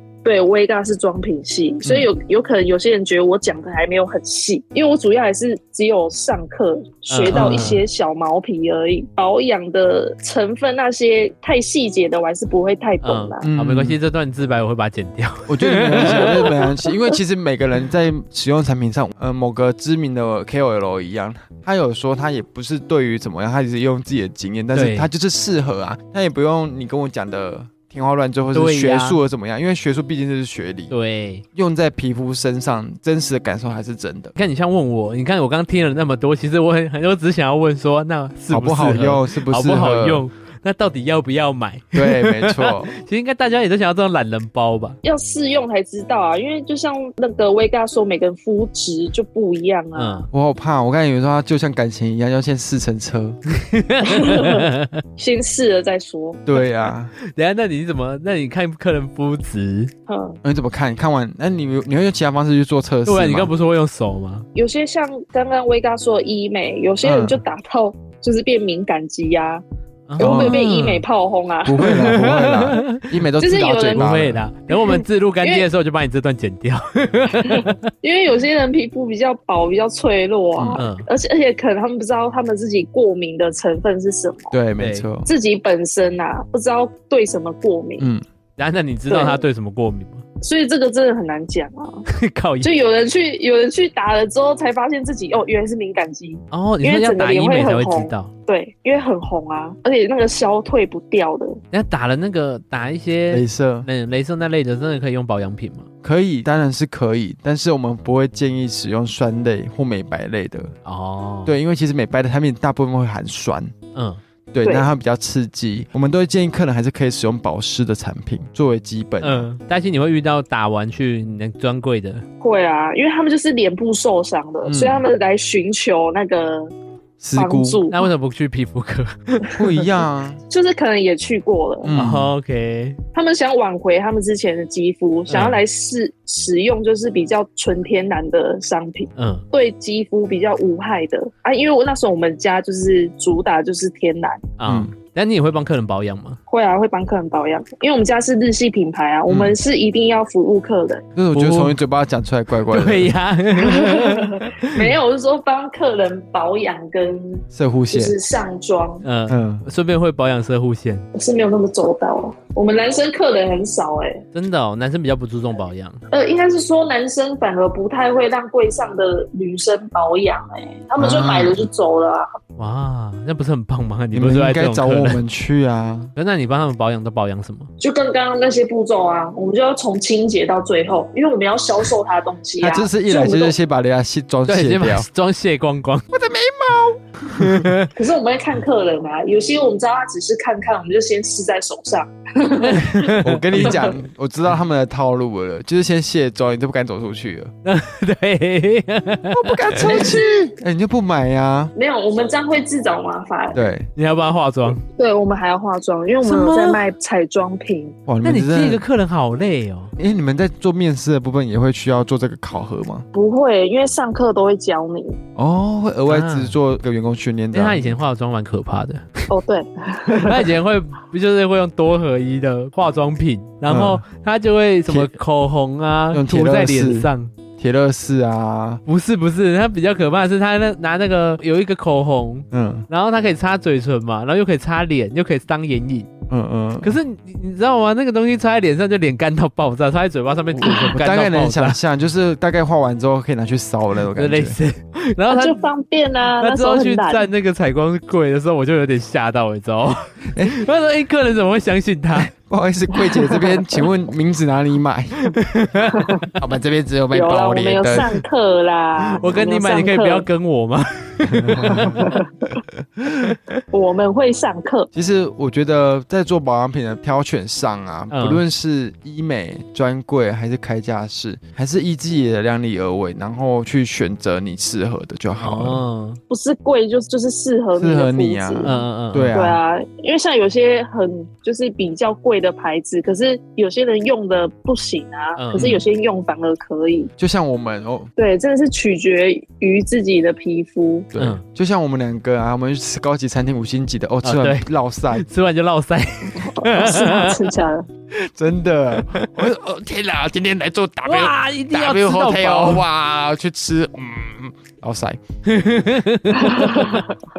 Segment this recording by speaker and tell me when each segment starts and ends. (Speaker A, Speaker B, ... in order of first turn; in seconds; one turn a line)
Speaker A: 0.2-13.5
Speaker B: 7.1-7.8
Speaker C: 7.3-7.7
Speaker B: 13.0-16.5
Speaker C: 13.4-14.0
Speaker C: 15.5-30.9
Speaker A: 16.0-16.6
Speaker B: 24.7-25.1
Speaker B: 28.5-29.2
Speaker B: 30.9-31.4
Speaker C: 31.5-34.3
Speaker B: 34.4-45.0
Speaker C: 38.5-40.2
Speaker C: 41.9-42.9
Speaker A: 45.0-50.3
Speaker B: 49.9-50.3
Speaker C: 50.3-53.4
Speaker B: 53.5-55.0
Speaker A: 54.0-56.4
Speaker C: 56.5-57.1
Speaker B: 57.2-59.9
Speaker A: 60.1-60.4
Speaker C: 60.4-63.5
Speaker B: 63.0-64.5
Speaker A: 64.5-69.6
Speaker C: 67.0-67.4
Speaker B: 70.1-71.0
Speaker C: 70.2-70.6
Speaker A: 70.2-72.1
Speaker C: 71.6-74.5
Speaker B: 71.8-73.0
Speaker A: 73.4-74.1
Speaker B: 73.9-77.9
Speaker A: 74.7-75.7
Speaker A: 77.4-84.5
Speaker C: 80.5-80.8
Speaker B: 80.7-81.1
Speaker C: 84.5-85.3
Speaker B: 84.8-85.1
Speaker A: 85.2-88.1
Speaker C: 88.0-88.2
Speaker B: 88.6-90.2
Speaker A: 89.1-89.4
Speaker A: 90.4-92.0
Speaker B: 92.1-92.7
Speaker A: 92.6-101.6
Speaker B: 96.5-98.3
Speaker B: 101.7-105.9
Speaker C: 103.3-103.9
Speaker C: 106.0-110.7
Speaker B: 110.8-111.5
Speaker C: 111.4-113.7
Speaker B: 113.9-114.2
Speaker C: 114.5-119.5
Speaker B: 119.2-122.2
Speaker A: 122.4-126.7
Speaker C: 124.6-125.0
Speaker C: 127.2-127.8
Speaker A: 127.4-128.1
Speaker B: 127.9-129.5
Speaker C: 129.5-130.4
Speaker A: 130.5-132.0
Speaker C: 131.8-132.3
Speaker B: 131.9-133.0
Speaker A: 133.1-144.4
Speaker B: 135.3-135.6
Speaker B: 139.2-139.4
Speaker B: 144.6-146.4
Speaker C: 144.7-144.9
Speaker A: 146.5-151.0
Speaker C: 149.3-149.6
Speaker C: 151.1-153.1
Speaker B: 151.3-151.8
Speaker B: 152.6-154.9
Speaker A: 153.6-159.0
Speaker C: 157.5-158.1
Speaker B: 159.0-161.0
Speaker C: 159.3-159.6
Speaker A: 161.1-164.2
Speaker B: 164.3-166.0
Speaker A: 166.1-172.4
Speaker C: 171.0-171.6
Speaker B: 172.6-175.2
Speaker C: 174.1-176.1
Speaker B: 176.2-177.7
Speaker A: 177.8-183.5
Speaker C: 182.6-185.1
Speaker B: 184.4-186.1
Speaker C: 186.1-187.7
Speaker B: 187.3-187.9
Speaker A: 187.9-193.0
Speaker B: 192.6-193.8
Speaker C: 192.7-197.5
Speaker A: 193.6-193.9
Speaker B: 197.6-200.2
Speaker C: 199.3-201.7
Speaker A: 199.8-200.5
Speaker A: 201.7-203.7
Speaker C: 203.5-203.9
Speaker B: 203.9-204.8
Speaker A: 204.9-208.0
Speaker B: 206.2-206.8
Speaker C: 208.1-208.8
Speaker B: 208.2-209.9
Speaker C: 210.0-213.0
Speaker A: 213.1-215.2
Speaker C: 215.3-218.0
Speaker B: 216.1-216.5
Speaker B: 217.5-219.3
Speaker A: 219.3-220.6
Speaker B: 220.1-227.3
Speaker C: 223.7-224.0
Speaker C: 224.9-225.1
Speaker C: 226.1-228.8
Speaker B: 228.8-236.1
Speaker C: 232.5-232.8
Speaker C: 236.3-236.9
Speaker B: 236.8-241.8
Speaker C: 240.7-244.6
Speaker B: 244.1-245.6
Speaker A: 245.3-247.3
Speaker B: 246.4-252.3
Speaker C: 250.2-250.6
Speaker C: 252.2-255.3
Speaker B: 255.2-256.3
Speaker A: 255.9-256.3
Speaker C: 256.4-258.1
Speaker A: 257.1-260.2
Speaker B: 259.0-262.1
Speaker C: 261.3-262.1
Speaker A: 261.6-262.5
Speaker B: 263.1-263.6
Speaker A: 263.7-264.9
Speaker C: 264.9-275.8
Speaker B: 268.1-268.4
Speaker B: 275.4-276.2
Speaker A: 276.3-278.7
Speaker C: 277.8-279.6
Speaker B: 278.6-279.3
Speaker A: 279.3-287.1
Speaker B: 285.4-285.7
Speaker C: 285.5-285.8
Speaker C: 287.2-288.1
Speaker A: 288.2-291.1
Speaker C: 291.1-295.2
Speaker B: 291.2-291.4
Speaker B: 294.2-297.5
Speaker A: 296.3-297.9
Speaker C: 298.2-305.2
Speaker B: 298.9-299.2
Speaker B: 301.0-302.9
Speaker B: 305.4-307.0
Speaker A: 306.3-307.1